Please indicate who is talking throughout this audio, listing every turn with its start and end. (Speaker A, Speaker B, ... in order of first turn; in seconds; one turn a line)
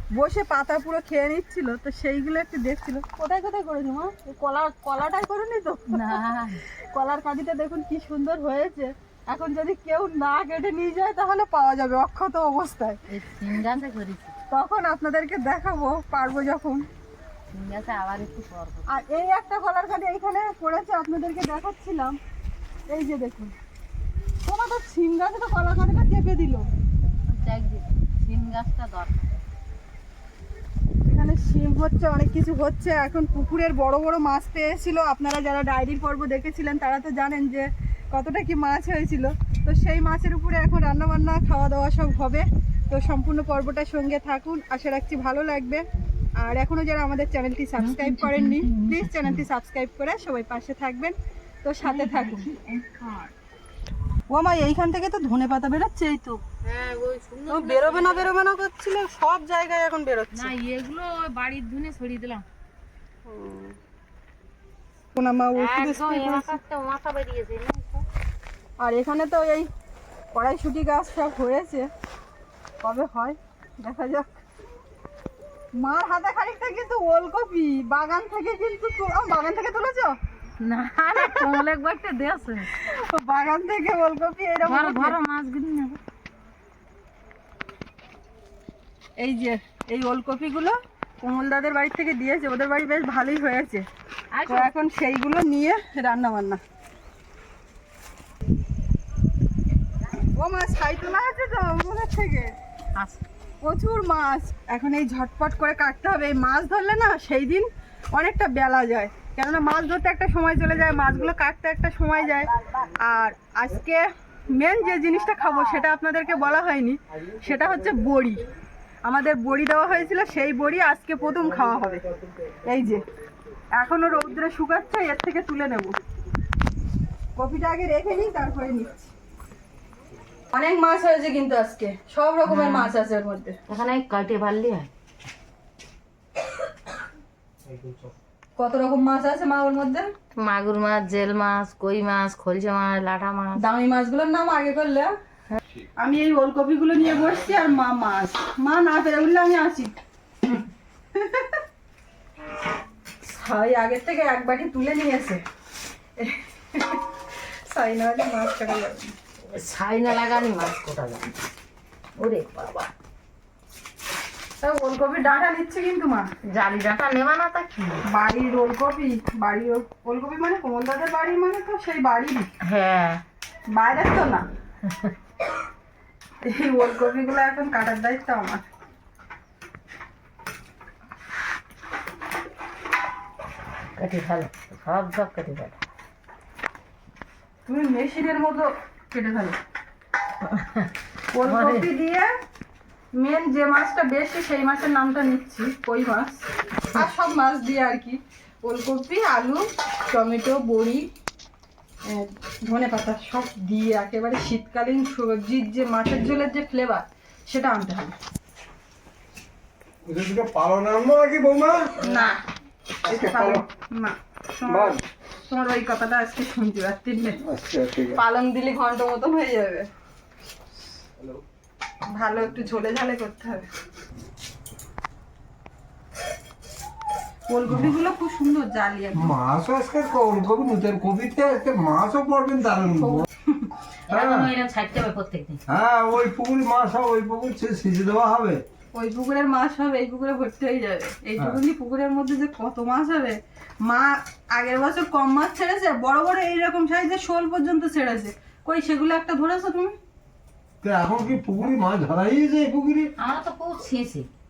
Speaker A: 0.1-6.3
Speaker B: 5.9-6.6
Speaker A: 6.9-13.0
Speaker B: 13.1-14.3
Speaker A: 14.5-16.9
Speaker B: 17.5-19.0
Speaker A: 18.9-22.2
Speaker A: 22.9-23.6
Speaker A: 24.4-26.7
Speaker B: 27.3-29.4
Speaker A: 31.1-45.9
Speaker A: 46.4-52.5
Speaker B: 47.8-49.2
Speaker B: 51.9-53.3
Speaker A: 54.3-56.4
Speaker B: 56.6-58.3
Speaker A: 57.5-60.5
Speaker B: 60.3-62.4
Speaker A: 63.3-63.8
Speaker A: 65.2-66.6
Speaker B: 65.5-68.0
Speaker A: 68.8-69.7
Speaker A: 70.3-71.9
Speaker A: 72.8-74.4
Speaker A: 75.8-80.2
Speaker B: 80.6-82.7
Speaker A: 81.2-81.5
Speaker A: 82.7-85.2
Speaker B: 84.7-86.0
Speaker A: 89.2-93.9
Speaker B: 94.3-94.7
Speaker A: 94.5-96.6
Speaker A: 100.3-102.5
Speaker B: 103.0-103.2
Speaker A: 103.6-118.5
Speaker A: 119.0-122.1
Speaker A: 122.7-123.0
Speaker A: 123.7-126.0
Speaker A: 127.4-129.1
Speaker A: 130.5-133.6
Speaker B: 132.5-132.9
Speaker B: 133.7-134.9
Speaker A: 138.6-140.1
Speaker B: 140.4-143.6
Speaker A: 143.6-145.1
Speaker A: 146.0-149.9
Speaker A: 151.2-151.6
Speaker A: 153.2-155.4
Speaker A: 156.2-157.1
Speaker A: 157.7-159.2
Speaker B: 159.5-161.3
Speaker B: 162.2-162.9
Speaker A: 164.6-166.3
Speaker B: 166.4-168.0
Speaker A: 168.1-172.5
Speaker B: 172.6-173.2
Speaker A: 173.7-174.5
Speaker B: 174.8-175.1
Speaker A: 176.4-178.7
Speaker B: 184.0-185.8
Speaker A: 187.7-189.6
Speaker B: 190.4-191.9
Speaker A: 191.3-192.3
Speaker A: 193.2-201.1
Speaker A: 202.1-208.2
Speaker C: 210.1-212.0
Speaker A: 212.0-212.4
Speaker B: 212.0-212.3
Speaker C: 213.1-213.6
Speaker A: 213.1-217.4
Speaker C: 214.7-215.0
Speaker C: 217.4-218.2
Speaker A: 218.2-219.9
Speaker A: 222.2-223.7
Speaker A: 227.5-229.3
Speaker C: 229.1-233.3
Speaker B: 234.1-235.6
Speaker C: 234.1-234.5
Speaker C: 235.7-238.6
Speaker A: 238.9-250.0
Speaker C: 250.8-253.1
Speaker B: 253.2-254.3